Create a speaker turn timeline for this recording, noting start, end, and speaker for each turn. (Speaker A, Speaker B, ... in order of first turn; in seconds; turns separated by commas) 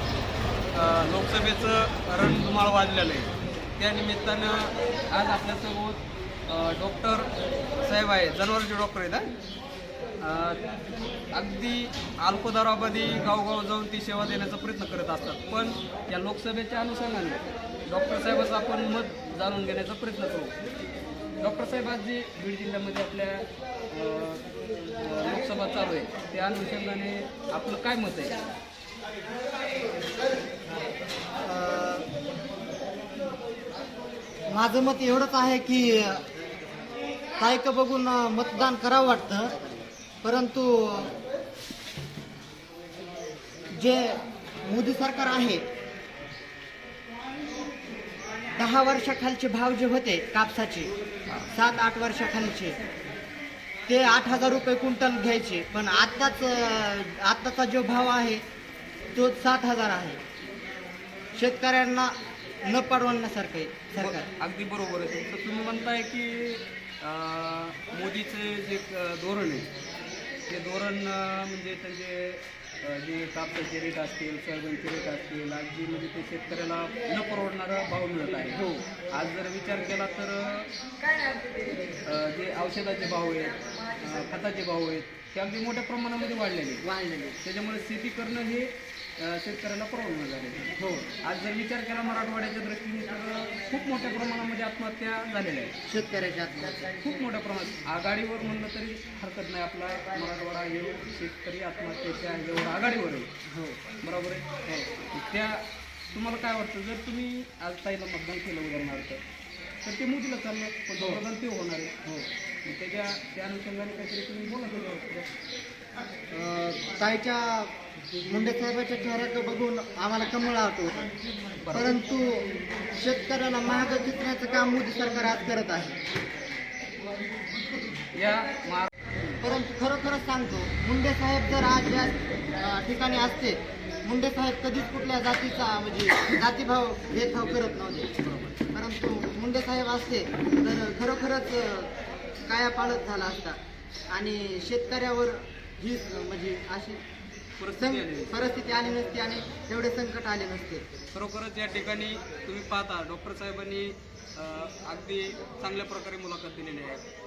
Speaker A: 0.7-7.3, Speaker A: 7.8-9.3, Speaker A: 10.2-10.6, Speaker A: 11.3-20.6, Speaker A: 21.4-28.4, Speaker B: 31.4-32.1, Speaker B: 34.5-36.2, Speaker B: 37.4-39.5, Speaker B: 40.2-41.1, Speaker B: 43.7-45.6, Speaker B: 48.5-50.9, Speaker B: 51.5-52.8, Speaker B: 53.9-58.4, Speaker B: 59.1-60.2, Speaker B: 61.4-64.3, Speaker A: 64.0-69.7, Speaker A: 70.5-80.7, Speaker A: 82.0-86.8, Speaker B: 86.8-87.4, Speaker A: 87.4-95.7, Speaker B: 90.8-91.1, Speaker B: 95.9-96.9, Speaker A: 96.8-103.3, Speaker B: 103.5-103.8, Speaker A: 104.0-109.2, Speaker A: 109.8-112.0, Speaker A: 112.7-115.3, Speaker B: 116.3-121.1, Speaker A: 121.6-121.9, Speaker B: 121.7-126.0, Speaker A: 128.1-129.1, Speaker B: 129.4-138.1, Speaker A: 137.4-138.7, Speaker B: 138.7-141.9, Speaker B: 142.5-143.6, Speaker B: 144.1-147.0, Speaker A: 147.6-148.3, Speaker B: 147.8-150.9, Speaker A: 151.1-157.0